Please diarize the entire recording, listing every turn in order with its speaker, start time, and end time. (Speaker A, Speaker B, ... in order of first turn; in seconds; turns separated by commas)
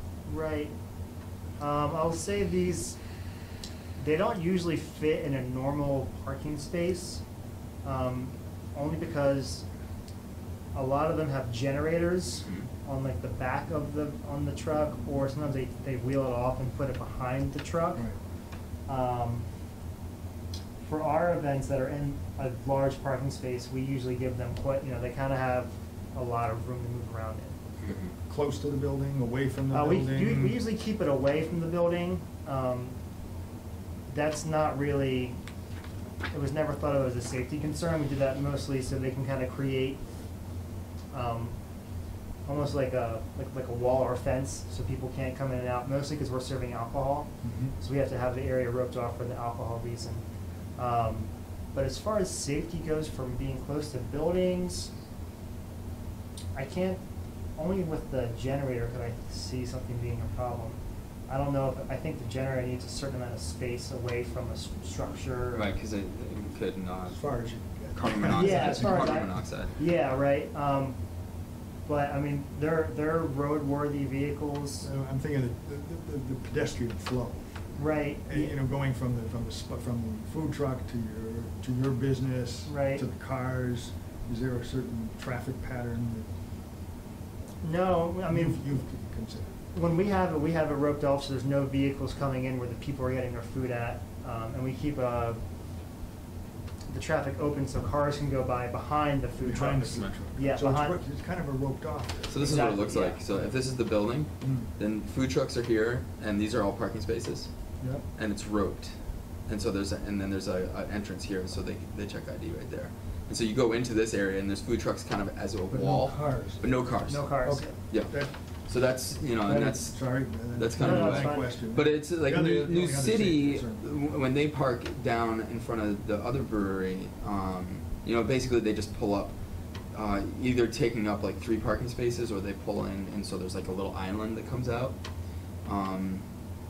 Speaker A: 0.2-0.7, Speaker A: 1.6-3.0, Speaker A: 4.0-7.2, Speaker A: 7.8-9.6, Speaker A: 10.7-18.0, Speaker A: 18.9-19.4, Speaker A: 20.8-27.5, Speaker B: 27.8-28.1, Speaker C: 28.2-30.6, Speaker A: 29.7-32.9, Speaker A: 34.1-35.3, Speaker A: 36.3-40.0, Speaker A: 41.1-41.5, Speaker A: 42.5-50.2, Speaker C: 47.4-47.7, Speaker A: 50.8-54.9, Speaker A: 56.5-57.0, Speaker A: 57.6-65.7, Speaker B: 65.5-67.2, Speaker C: 67.1-69.4, Speaker B: 67.9-69.8, Speaker A: 68.3-71.0, Speaker A: 71.9-74.9, Speaker C: 74.8-77.5, Speaker A: 77.8-78.5, Speaker C: 78.2-86.3, Speaker A: 82.7-83.0, Speaker A: 87.6-88.6, Speaker C: 88.3-89.6, Speaker A: 89.7-95.4, Speaker A: 96.9-101.0, Speaker C: 99.4-102.7, Speaker B: 102.3-107.5, Speaker A: 102.4-103.2, Speaker C: 104.4-104.7, Speaker B: 108.1-108.9, Speaker B: 109.5-118.1, Speaker C: 115.7-116.8, Speaker A: 117.1-117.7, Speaker C: 117.4-118.3, Speaker B: 118.7-129.3, Speaker C: 119.3-123.9, Speaker A: 120.8-121.5, Speaker B: 129.9-134.9, Speaker B: 135.6-136.2